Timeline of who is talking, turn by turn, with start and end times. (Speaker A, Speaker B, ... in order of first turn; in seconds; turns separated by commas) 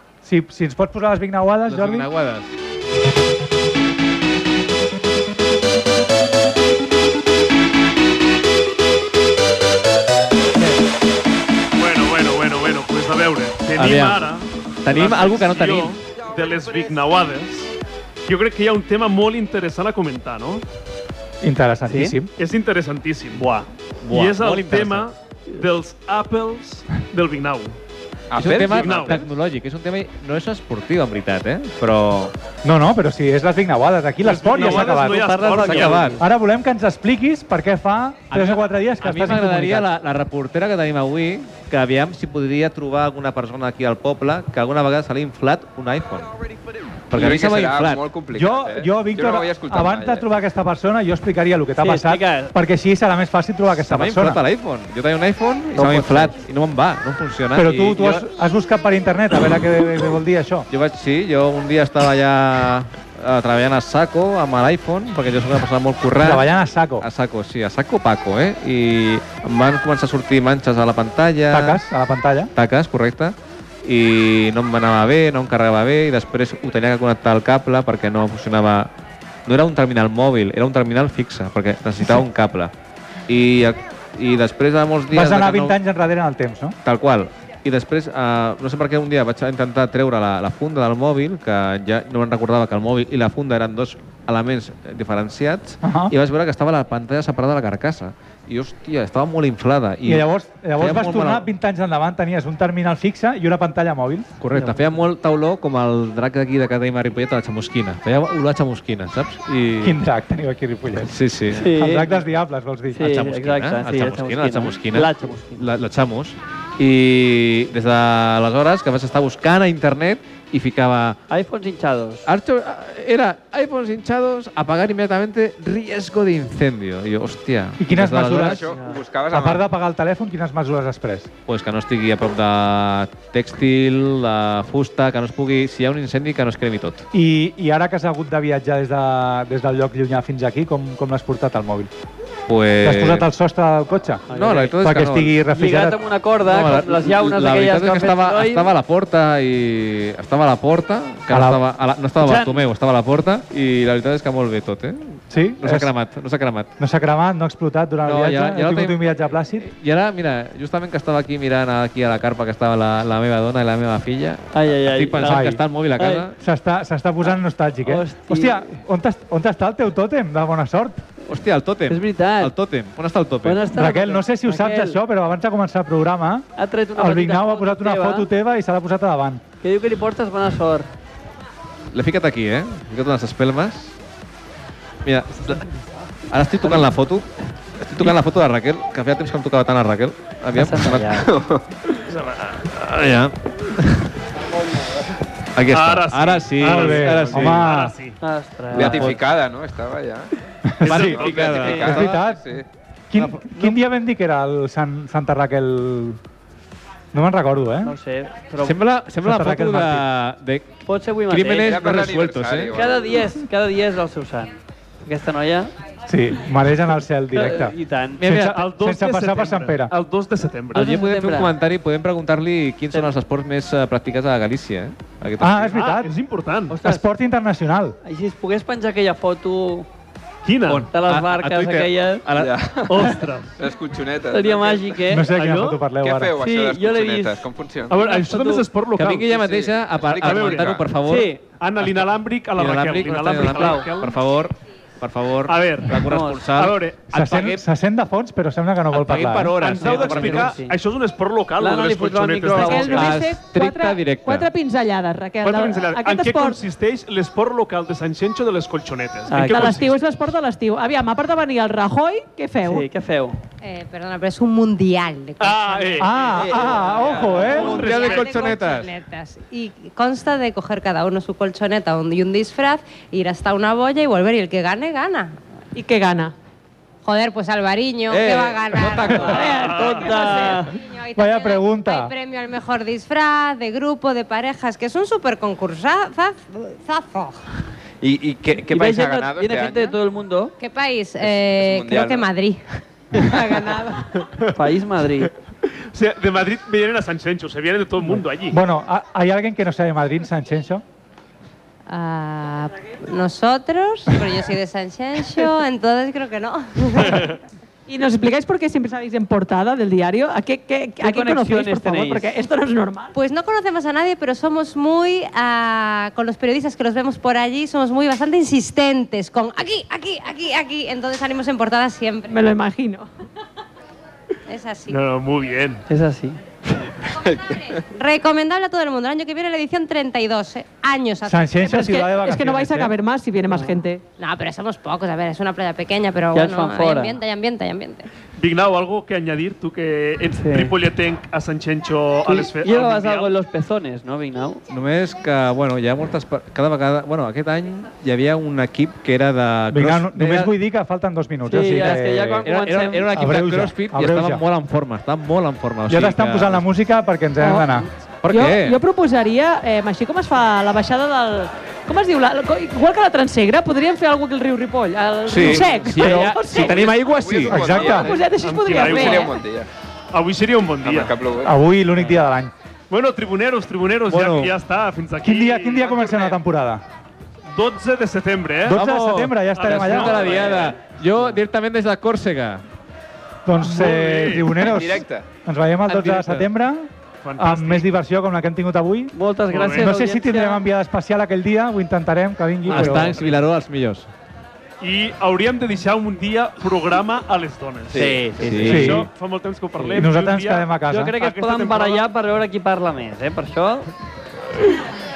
Speaker A: 0.2-2.1, Speaker B: 1.7-2.5, Speaker C: 11.8-17.7, Speaker B: 13.8-14.3, Speaker B: 14.8-16.0, Speaker C: 18.3-20.6, Speaker A: 21.4-22.3, Speaker D: 21.9-22.2, Speaker C: 22.4-27.8, Speaker B: 24.0-25.1, Speaker E: 28.3-29.2, Speaker B: 28.4-32.3, Speaker C: 28.7-29.2, Speaker A: 32.6-35.4, Speaker C: 34.2-36.2, Speaker D: 34.6-36.2, Speaker B: 35.5-36.2, Speaker A: 36.2-39.9, Speaker B: 38.3-46.3, Speaker B: 47.1-48.1, Speaker E: 47.1-50.2, Speaker A: 48.3-54.4, Speaker D: 51.8-52.6, Speaker B: 53.8-58.2, Speaker D: 55.8-56.3, Speaker A: 55.8-56.2, Speaker A: 57.5-60.7, Speaker B: 60.7-66.5, Speaker A: 66.2-67.1, Speaker B: 67.0-71.8, Speaker A: 71.5-72.5, Speaker B: 72.5-78.9, Speaker B: 79.5-82.7, Speaker B: 83.3-85.8, Speaker A: 85.1-86.8, Speaker B: 86.8-101.5, Speaker A: 95.8-96.1, Speaker A: 100.0-104.3, Speaker B: 104.4-110.0, Speaker D: 104.5-104.8, Speaker A: 109.8-111.1, Speaker B: 111.0-111.7, Speaker D: 111.5-112.1, Speaker A: 111.7-113.2, Speaker D: 112.9-115.7, Speaker B: 113.0-121.2, Speaker D: 121.3-122.3, Speaker B: 122.3-128.7, Speaker A: 127.8-128.8, Speaker E: 128.3-129.7, Speaker A: 129.3-131.3, Speaker B: 131.5-137.1, Speaker A: 137.1-141.9, Speaker B: 142.5-143.3, Speaker A: 142.8-146.0, Speaker B: 144.3-145.4, Speaker D: 144.3-144.8, Speaker D: 145.5-148.7, Speaker B: 146.5-156.7, Speaker A: 151.3-151.6, Speaker D: 152.2-152.6, Speaker A: 155.3-155.9, Speaker A: 156.8-159.7, Speaker B: 158.1-159.1, Speaker B: 159.6-166.4, Speaker D: 164.5-166.3, Speaker A: 165.2-165.6, Speaker A: 166.4-171.0, Speaker D: 167.8-168.8, Speaker B: 171.3-173.7, Speaker D: 171.9-172.5, Speaker D: 173.4-175.0, Speaker A: 173.7-179.4, Speaker D: 176.6-178.3, Speaker D: 179.6-180.9, Speaker B: 181.9-183.9, Speaker B: 185.1-185.6, Speaker B: 186.3-187.3, Speaker D: 186.6-186.9, Speaker B: 187.8-191.2, Speaker D: 190.5-191.3, Speaker E: 191.2-191.6, Speaker C: 192.1-192.5, Speaker B: 192.5-194.1, Speaker B: 195.6-197.8, Speaker C: 195.7-198.2, Speaker A: 196.6-197.9, Speaker D: 198.2-199.1, Speaker E: 198.7-200.3, Speaker B: 198.8-199.2, Speaker A: 200.7-201.2, Speaker C: 200.8-201.8, Speaker B: 200.8-202.3, Speaker E: 200.9-202.7, Speaker D: 201.6-201.8, Speaker A: 201.8-202.4, Speaker A: 203.1-206.2, Speaker B: 203.1-203.7, Speaker A: 207.1-207.9, Speaker D: 207.8-208.8, Speaker B: 208.6-210.7, Speaker A: 209.2-210.1, Speaker D: 210.9-211.9, Speaker B: 211.3-212.7, Speaker E: 211.6-213.2, Speaker D: 212.7-214.5, Speaker D: 215.1-215.7, Speaker A: 216.1-219.9, Speaker D: 217.3-218.3, Speaker B: 218.2-218.6, Speaker C: 218.3-220.9, Speaker D: 220.7-221.5, Speaker B: 220.8-225.7, Speaker A: 225.4-226.1, Speaker C: 225.7-226.8, Speaker D: 226.7-227.1, Speaker A: 226.8-228.0, Speaker D: 228.0-229.9, Speaker C: 230.4-230.9, Speaker B: 230.7-233.0, Speaker D: 230.9-232.2, Speaker E: 232.4-235.1, Speaker C: 232.9-233.5, Speaker D: 234.3-235.3, Speaker A: 235.1-236.3, Speaker C: 235.3-235.8, Speaker E: 235.9-238.1, Speaker D: 236.4-238.7, Speaker C: 237.9-239.3, Speaker B: 239.0-241.4, Speaker E: 239.3-240.8, Speaker C: 240.2-240.8, Speaker D: 241.1-241.4, Speaker C: 241.6-244.2, Speaker B: 242.6-247.6, Speaker D: 243.5-243.8, Speaker C: 245.5-246.0, Speaker D: 245.9-246.4, Speaker C: 246.5-247.0, Speaker A: 247.1-249.6, Speaker B: 248.9-250.6, Speaker C: 249.6-253.1, Speaker D: 249.8-250.8, Speaker D: 251.6-253.1, Speaker F: 252.6-256.6, Speaker B: 252.8-254.5, Speaker C: 255.4-259.9, Speaker D: 259.3-259.8, Speaker F: 259.4-262.9, Speaker D: 262.6-263.4, Speaker G: 263.6-275.4, Speaker C: 265.4-266.3, Speaker A: 266.0-267.8, Speaker E: 266.4-267.5, Speaker B: 267.5-268.9, Speaker C: 267.5-268.5, Speaker F: 275.8-276.3, Speaker G: 277.0-279.6, Speaker E: 278.1-278.8, Speaker B: 278.7-279.5, Speaker D: 279.1-280.8, Speaker F: 279.2-280.8, Speaker C: 279.5-280.1, Speaker G: 280.7-287.2, Speaker A: 281.1-282.1, Speaker E: 288.0-290.0, Speaker D: 288.7-290.5, Speaker G: 290.6-294.1, Speaker E: 291.2-292.3, Speaker E: 293.1-293.6, Speaker D: 294.5-295.3, Speaker C: 295.7-298.6, Speaker A: 298.5-300.8, Speaker G: 301.9-307.3, Speaker C: 307.0-307.4, Speaker F: 307.9-313.1, Speaker D: 311.0-312.5, Speaker G: 313.1-322.4, Speaker F: 322.3-323.1, Speaker G: 324.5-325.0, Speaker C: 324.9-325.8, Speaker D: 325.9-326.4, Speaker E: 327.1-327.8, Speaker G: 327.9-331.9, Speaker A: 331.2-332.9, Speaker F: 331.6-334.0, Speaker G: 334.2-338.1, Speaker D: 336.3-337.2, Speaker C: 338.4-343.3, Speaker D: 340.4-340.8, Speaker D: 342.3-344.6, Speaker B: 344.7-350.5, Speaker A: 349.7-352.5, Speaker D: 351.5-353.1, Speaker B: 352.4-356.7, Speaker A: 353.1-354.4, Speaker A: 355.9-357.9, Speaker F: 357.4-366.9, Speaker B: 358.2-358.8, Speaker B: 365.3-368.3, Speaker A: 365.4-366.3, Speaker E: 366.9-369.7, Speaker A: 367.5-368.1, Speaker F: 367.9-369.4, Speaker C: 368.4-369.3, Speaker C: 370.1-371.2, Speaker E: 370.8-371.6, Speaker A: 371.4-372.5, Speaker C: 372.9-376.4, Speaker B: 374.1-374.5, Speaker A: 375.2-376.8, Speaker C: 377.5-378.8, Speaker A: 378.6-380.3, Speaker B: 378.7-382.6, Speaker C: 379.6-380.8, Speaker A: 383.5-389.1, Speaker C: 383.6-384.5, Speaker E: 384.6-385.3, Speaker B: 385.9-386.5, Speaker C: 387.2-387.9, Speaker D: 389.1-390.6, Speaker C: 389.5-389.9, Speaker A: 389.7-393.2, Speaker B: 392.7-394.1, Speaker C: 392.7-393.3, Speaker C: 394.8-398.1, Speaker E: 397.9-398.2, Speaker D: 397.9-399.1, Speaker B: 398.4-399.0, Speaker A: 398.7-399.1, Speaker C: 398.7-402.1, Speaker D: 399.8-400.1, Speaker A: 399.9-401.2, Speaker D: 400.9-403.9